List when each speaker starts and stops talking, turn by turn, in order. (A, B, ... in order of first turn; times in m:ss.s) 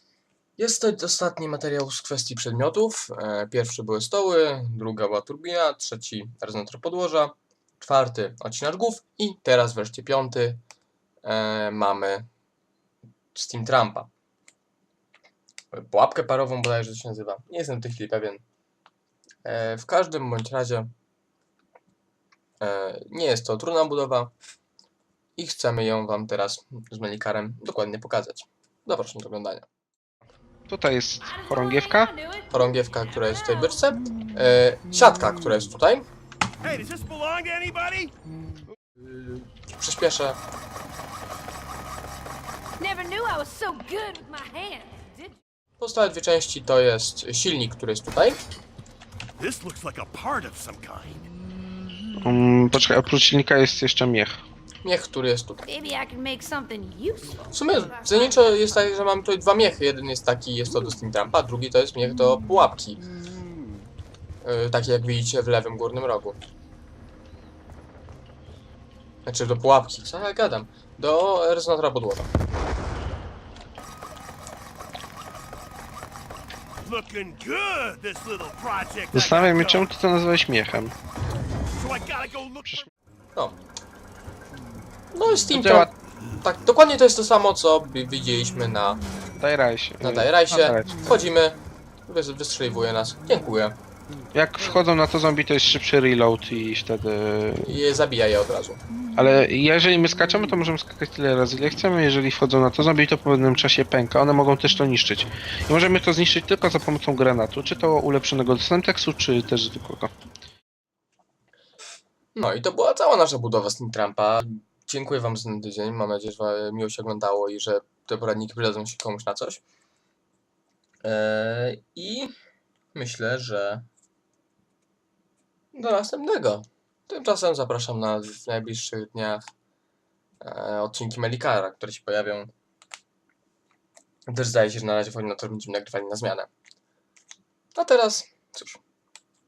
0:00.6-0:10.6 A
0:11.2-0:12.3 A
0:13.3-0:14.1 A
0:15.7-0:18.4 A
0:19.4-0:20.9 A
0:22.6-0:24.3 A
0:25.4-0:29.7 A
0:30.7-0:32.1 B
0:31.2-0:33.8 C
0:32.5-0:36.1 A
0:36.6-0:38.1 D
0:39.8-0:40.4 A
0:42.8-0:45.4 C
0:45.8-0:48.4 A
0:49.4-0:51.3 D
0:52.2-0:54.4 B
0:54.8-0:55.6 A
0:55.7-0:58.9 C
0:57.5-1:03.0 A
1:04.4-1:06.4 A
1:09.2-1:12.3 A
1:16.8-1:19.9 D
1:19.1-1:21.0 B
1:21.7-1:22.9 D
1:25.1-1:29.0 A
1:25.5-1:25.9 B
1:29.4-1:31.0 B
1:30.0-1:33.8 A
1:34.3-1:37.7 B
1:37.6-1:38.8 A
1:39.2-1:50.1 B
1:52.4-1:59.6 A
2:01.0-2:02.3 A
2:03.0-2:03.9 A
2:05.7-2:09.4 A
2:10.4-2:12.5 A
2:14.3-2:16.5 A
2:17.8-2:18.8 A